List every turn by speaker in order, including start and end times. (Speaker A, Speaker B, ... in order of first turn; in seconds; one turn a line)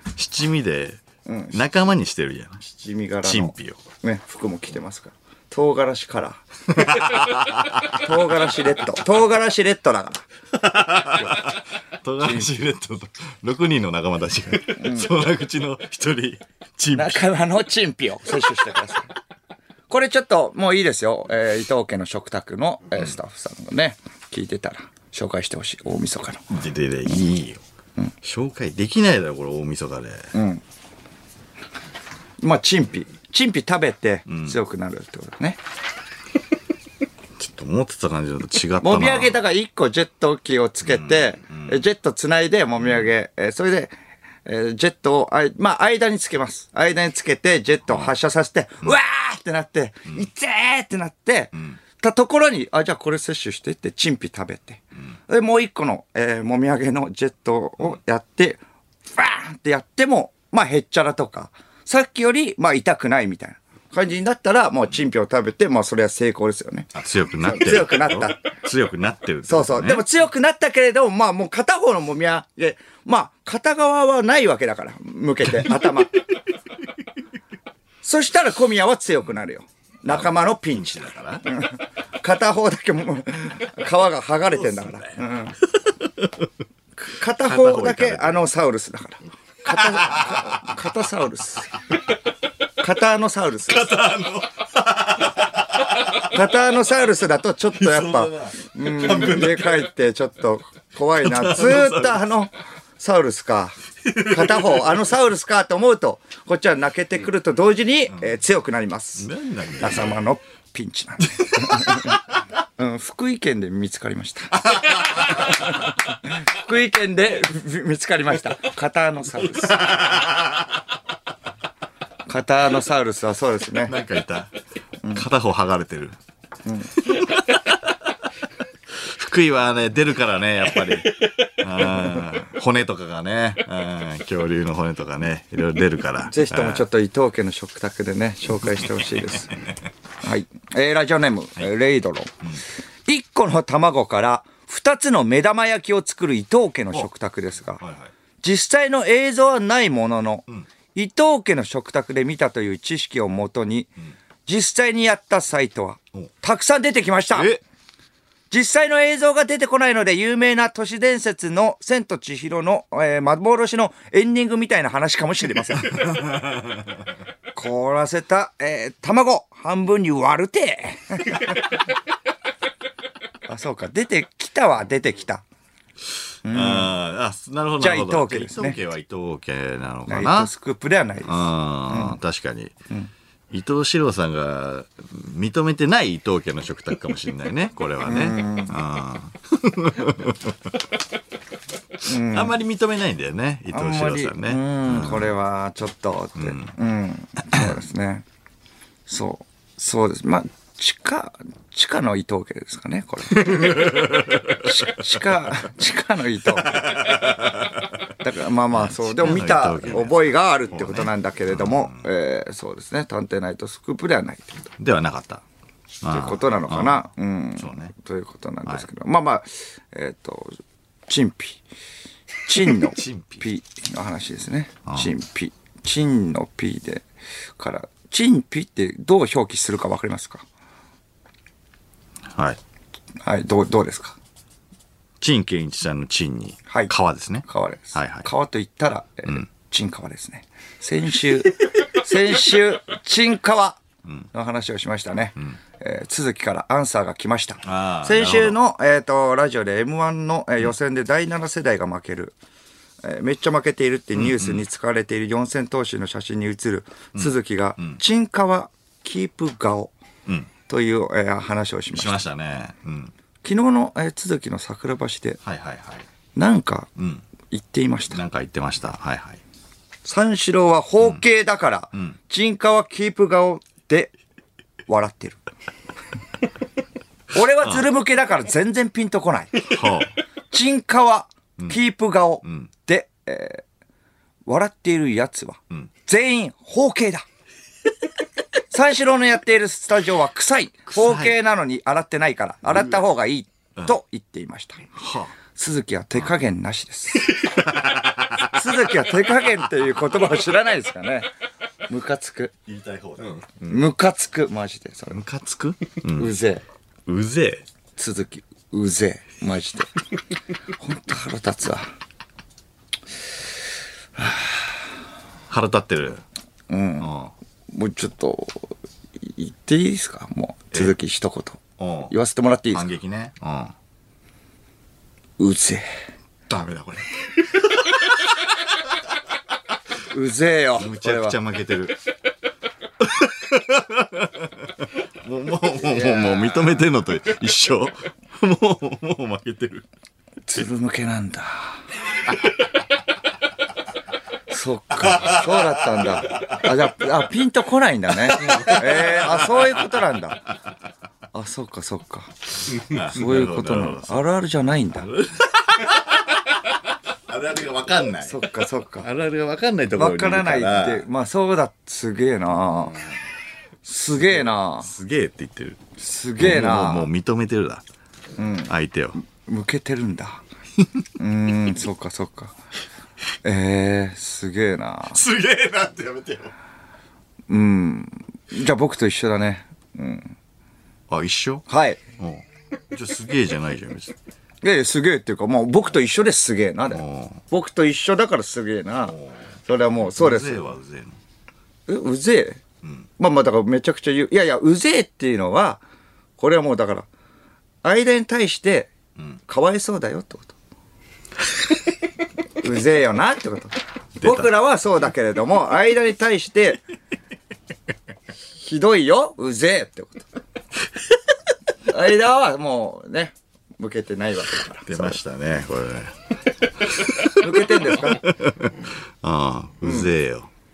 Speaker A: 0.1-1.0
Speaker B: 1.2-1.7
Speaker A: 1.5-2.7
Speaker B: 2.7-6.9
Speaker A: 3.2-3.8
Speaker A: 6.7-8.0
Speaker B: 7.8-10.2
Speaker A: 10.5-17.2
Speaker B: 14.8-15.1
Speaker B: 16.9-19.1
Speaker B: 19.9-26.4
Speaker A: 26.5-27.6
Speaker A: 28.2-30.3
Speaker B: 30.3-30.6
Speaker B: 32.4-35.6
Speaker A: 34.3-34.5
Speaker A: 37.4-39.4
Speaker B: 38.8-43.9
Speaker A: 40.9-41.7
Speaker B: 44.4-68.5
Speaker A: 66.9-70.0
Speaker B: 69.5-76.2
Speaker B: 78.0-85.6
Speaker A: 80.0-81.5
Speaker A: 85.8-86.5
Speaker B: 87.0-91.7
Speaker A: 87.4-88.4
Speaker A: 89.7-90.7
Speaker B: 92.8-94.0
Speaker A: 93.7-96.3
Speaker B: 96.2-112.2
Speaker A: 97.7-99.9
Speaker A: 101.2-102.2
Speaker A: 104.1-104.8
Speaker A: 109.2-110.2
Speaker A: 111.4-112.2
Speaker B: 112.8-120.1
Speaker A: 119.9-120.4
Speaker B: 122.3-124.0
Speaker A: 123.8-124.5
Speaker A: 125.1-126.2
Speaker B: 126.6-127.0
Speaker A: 127.0-128.0
Speaker A: 128.9-136.8
Speaker B: 136.3-139.7
Speaker B: 140.2-147.8
Speaker A: 147.8-148.1
Speaker B: 148.4-153.9
Speaker B: 154.4-157.6
Speaker A: 157.3-157.6
Speaker B: 158.5-166.2
Speaker A: 166.0-166.7
Speaker B: 167.5-171.6
Speaker B: 173.5-175.4
Speaker B: 176.4-176.9
Speaker A: 176.4-180.5
Speaker B: 177.8-178.8
Speaker B: 180.1-182.2
Speaker A: 181.2-182.7
Speaker A: 183.5-190.8
Speaker B: 188.0-188.8
Speaker B: 192.0-192.6
Speaker A: 192.0-195.3
Speaker B: 193.7-198.2
Speaker A: 196.4-196.7
Speaker B: 199.1-207.2
Speaker A: 203.3-204.7
Speaker A: 206.6-207.9
Speaker B: 208.2-214.7
Speaker A: 208.7-212.1
Speaker A: 214.8-215.4
Speaker A: 216.0-217.0
Speaker B: 216.1-221.6
Speaker A: 217.6-217.9
Speaker B: 222.4-227.0
Speaker A: 222.8-223.4
Speaker B: 227.6-230.4
Speaker A: 232.3-232.6
Speaker B: 233.2-234.2
Speaker A: 235.2-238.2
Speaker B: 237.4-243.8
Speaker B: 244.3-252.3
Speaker A: 247.6-248.6
Speaker B: 253.0-259.9
Speaker A: 254.2-254.6
Speaker A: 257.1-258.0
Speaker B: 260.7-262.2
Speaker A: 261.9-263.1
Speaker B: 263.4-265.4
Speaker A: 265.4-266.1
Speaker B: 266.3-266.9
Speaker A: 267.0-267.2
Speaker B: 267.5-268.2
Speaker A: 268.1-269.4
Speaker B: 270.0-274.1
Speaker B: 274.9-275.4
Speaker B: 277.3-279.9
Speaker A: 279.7-280.1
Speaker B: 280.5-283.6
Speaker B: 284.4-287.2
Speaker B: 288.7-294.9
Speaker A: 290.9-291.4
Speaker A: 294.9-295.3
Speaker B: 295.5-297.6
Speaker A: 297.4-298.6
Speaker B: 298.4-301.3
Speaker B: 301.9-302.5
Speaker A: 302.6-303.8
Speaker B: 303.6-305.2
Speaker A: 305.1-306.3
Speaker B: 306.1-306.6
Speaker A: 307.1-307.6
Speaker B: 308.0-309.9
Speaker B: 310.8-311.9
Speaker B: 314.2-314.7
Speaker A: 315.5-316.2
Speaker B: 316.7-317.1
Speaker A: 317.0-317.3
Speaker B: 317.7-322.9
Speaker A: 321.8-322.1
Speaker A: 322.7-323.7
Speaker B: 325.4-325.8
Speaker A: 326.5-328.2
Speaker B: 330.1-331.4
Speaker A: 330.8-332.0
Speaker A: 333.0-339.9
Speaker B: 335.9-336.8
Speaker B: 340.4-341.8
Speaker A: 342.3-342.6
Speaker B: 344.5-350.5
Speaker A: 345.1-345.6
Speaker A: 346.3-346.6
Speaker A: 348.3-349.8
Speaker B: 351.3-355.1
Speaker A: 352.7-354.2
Speaker A: 355.0-356.5
Speaker A: 357.3-358.4
Speaker B: 358.2-359.1
Speaker A: 359.0-361.1
Speaker B: 359.9-363.0
Speaker B: 363.8-364.9
Speaker A: 364.8-365.8
Speaker B: 366.0-367.1
Speaker A: 366.4-367.8
Speaker B: 368.4-368.7
Speaker A: 368.7-369.2
Speaker B: 369.3-370.4
Speaker B: 371.2-372.5
Speaker B: 373.4-375.2
Speaker A: 375.1-376.5
Speaker B: 377.5-380.3
Speaker A: 381.1-381.6
Speaker B: 381.7-382.0
Speaker A: 382.2-384.1
Speaker B: 384.6-390.6
Speaker A: 386.9-387.4
Speaker A: 390.0-391.2
Speaker B: 391.9-392.6
Speaker B: 393.2-395.8
Speaker B: 396.4-397.1
Speaker B: 397.8-398.9
Speaker B: 399.5-400.5
Speaker B: 402.6-406.8
Speaker B: 408.6-410.3
Speaker B: 411.9-415.2
Speaker A: 414.8-416.1
Speaker A: 416.8-420.5
Speaker B: 417.3-418.3